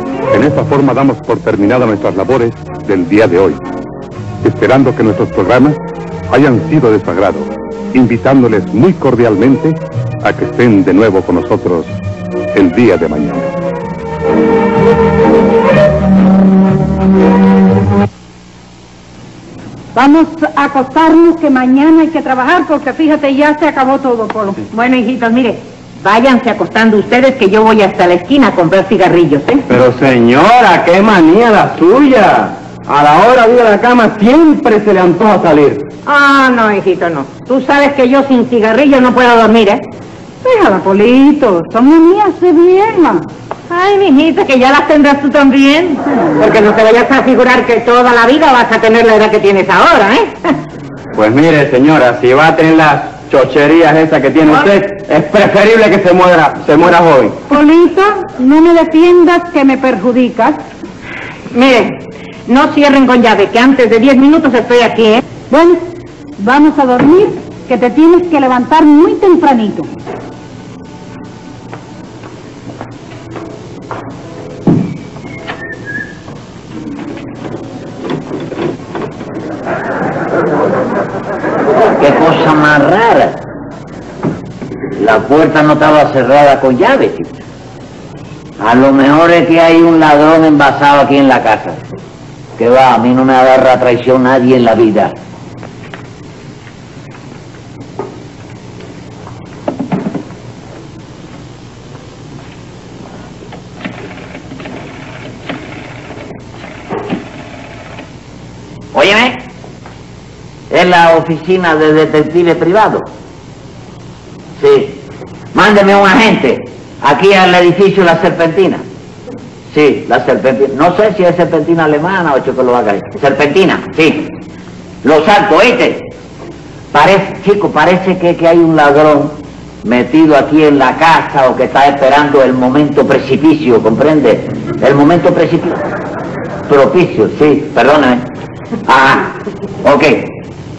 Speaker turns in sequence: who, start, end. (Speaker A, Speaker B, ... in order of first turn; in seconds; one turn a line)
Speaker A: 0.3-3.6
Speaker A: 4.4-5.7
Speaker A: 6.3-11.9
Speaker A: 12.6-13.5
Speaker B: 19.9-24.6
Speaker C: 24.6-29.6
Speaker D: 29.7-35.9
Speaker C: 36.1-39.9
Speaker B: 40.4-43.3
Speaker C: 40.7-41.5
Speaker C: 43.7-50.3
Speaker D: 51.1-57.4
Speaker C: 54.5-54.7
Speaker B: 57.5-60.6
Speaker C: 61.5-65.2
Speaker B: 65.5-65.8
Speaker B: 66.4-69.9
Speaker E: 82.0-83.5
Speaker E: 85.0-87.4
Speaker E: 88.6-91.8
Speaker E: 92.6-95.2
Speaker E: 108.9-109.4
Speaker E: 110.7-113.1
Speaker E: 114.6-118.8
Speaker E: 119.7-124.4
Speaker E: 125.0-126.1
Speaker E: 126.9-135.8
Speaker E: 136.7-138.2
Speaker E: 138.9-140.4